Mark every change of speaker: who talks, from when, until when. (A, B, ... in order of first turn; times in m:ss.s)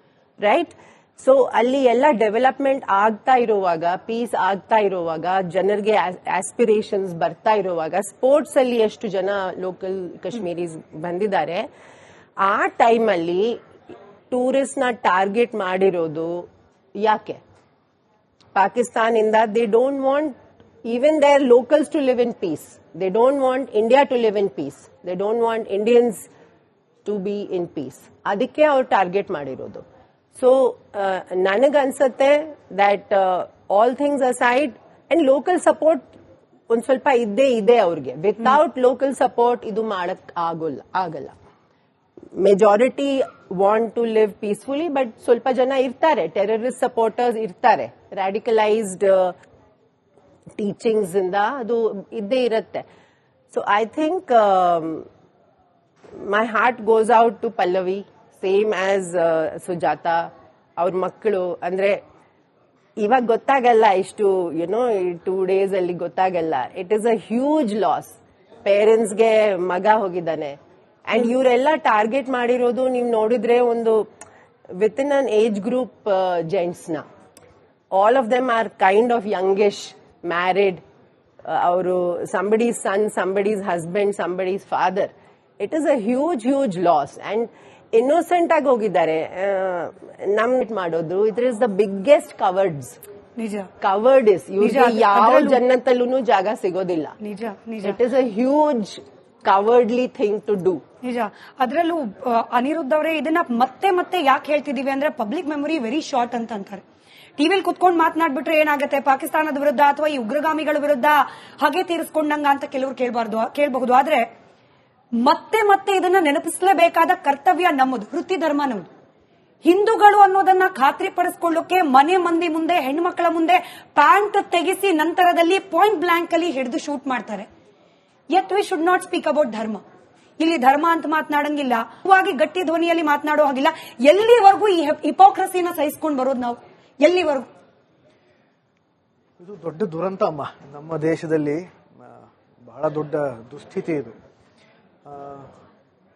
0:00.4-0:11.7 A
0:12.4-0:13.6 A
0:14.3-0:17.4 A
0:18.5-0:26.3 A
0:27.0-0:29.8 A
0:30.4-0:36.1 A
0:36.7-0:41.3 A
0:42.4-0:49.4 A
0:50.6-0:52.8 A
0:53.5-0:55.1 A
0:56.2-1:02.0 A
1:03.0-1:14.1 A
1:14.7-1:17.0 A
1:17.9-1:20.8 A
1:21.5-1:33.0 A
1:33.4-1:33.7 B
1:33.8-1:37.2 A
1:34.6-1:35.6 B
1:37.2-1:38.0 B
1:37.8-1:40.8 A
1:41.0-1:46.8 B
1:47.4-1:54.3 B
1:55.2-1:58.9 B
1:59.6-2:07.5 B
2:08.3-2:09.8 B
2:10.4-2:17.5 B
2:19.4-2:24.1 C
2:25.1-2:25.5 C